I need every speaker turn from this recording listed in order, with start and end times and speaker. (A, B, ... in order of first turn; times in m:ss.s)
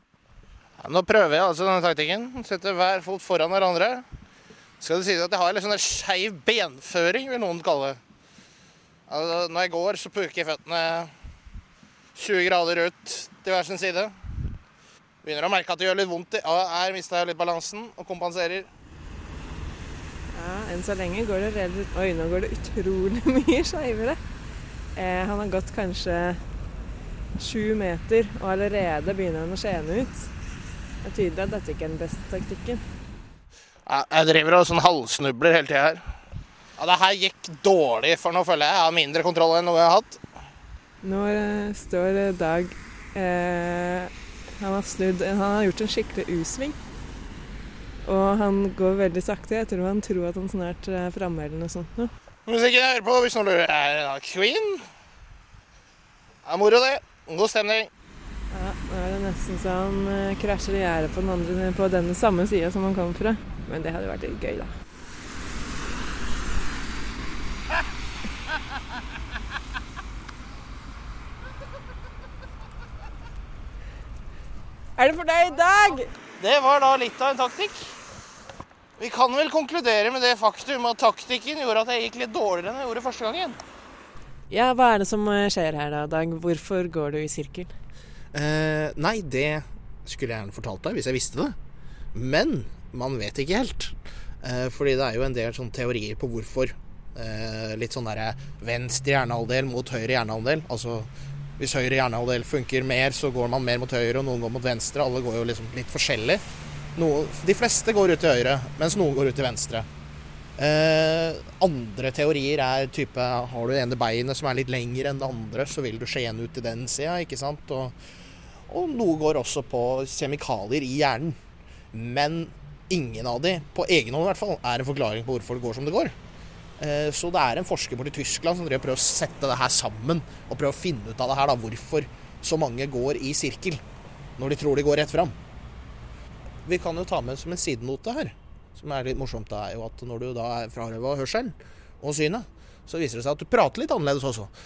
0:00.8-0:04.0 A
0:04.8-0:08.0 A
0:09.1-0:11.1 A
0:12.1-0:14.1 A
0:15.2-0:18.7 A
0:20.3-0:24.2 B
0:24.9-0:26.4 B
0:27.4-0:30.3 B
0:31.0-0:32.8 B
0:33.8-0:36.0 A
0:36.8-0:40.2 A
0:41.0-0:46.8 B
0:48.0-0:52.1 B
0:52.5-0:54.8 A
0:56.4-0:57.9 A
0:58.5-1:04.7 B
1:15.0-1:16.1 B
1:16.4-1:18.0 A
1:19.0-1:23.6 A
1:24.5-1:27.7 B
1:28.3-1:31.6 A
1:32.1-1:46.4 A
1:47.0-1:49.9 A
1:50.6-1:57.9 A
1:58.7-2:01.4 A
2:01.9-2:06.2 A
2:06.8-2:13.8 A
2:14.4-2:15.3 A
2:16.6-2:24.5 A